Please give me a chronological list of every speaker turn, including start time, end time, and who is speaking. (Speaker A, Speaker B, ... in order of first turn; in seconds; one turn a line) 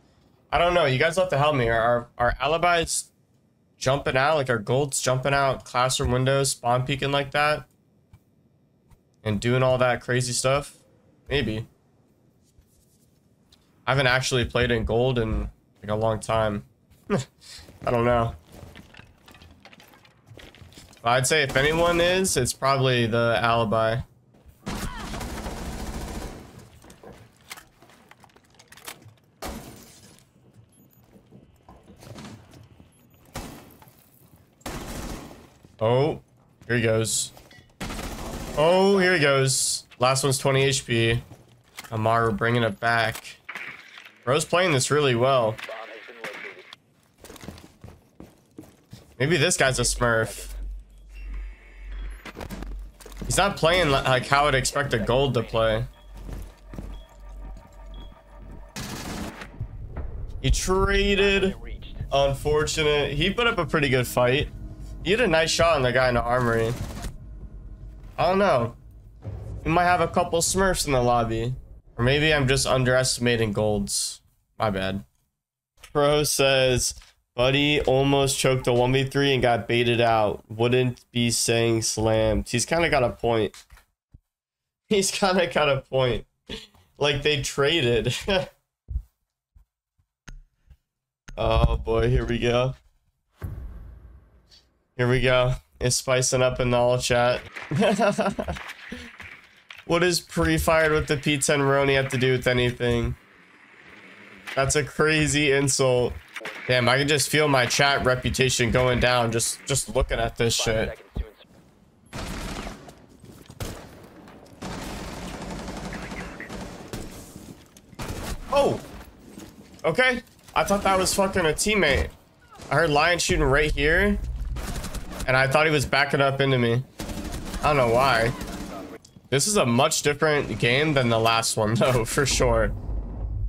Speaker A: 0.5-3.1
Speaker A: 3.8-7.7
Speaker A: 9.2-11.7
Speaker A: 13.9-17.2
Speaker A: 17.8-18.4
Speaker A: 21.0-24.1
Speaker A: 35.8-37.3
Speaker B: 38.2-39.4
Speaker A: 38.6-41.2
Speaker A: 41.9-43.4
Speaker A: 44.2-45.6
Speaker B: 45.6-46.7
Speaker A: 49.2-50.5
Speaker B: 49.7-50.6
Speaker A: 53.3-55.9
Speaker B: 54.0-55.8
Speaker A: 60.4-61.5
Speaker B: 61.1-62.1
Speaker A: 62.1-64.5
Speaker A: 65.0-66.8
Speaker A: 68.2-68.8
Speaker A: 69.6-75.0
Speaker A: 75.9-83.6
Speaker A: 84.9-86.3
Speaker A: 87.0-88.5
Speaker A: 91.4-92.7
Speaker A: 95.0-98.6
Speaker A: 99.9-103.2
Speaker A: 104.6-110.9
Speaker B: 106.4-107.3
Speaker B: 110.5-111.4
Speaker A: 118.5-118.8
Speaker A: 119.8-122.1
Speaker A: 122.7-124.2
Speaker A: 125.2-126.9
Speaker A: 127.6-128.4
Speaker A: 129.3-132.7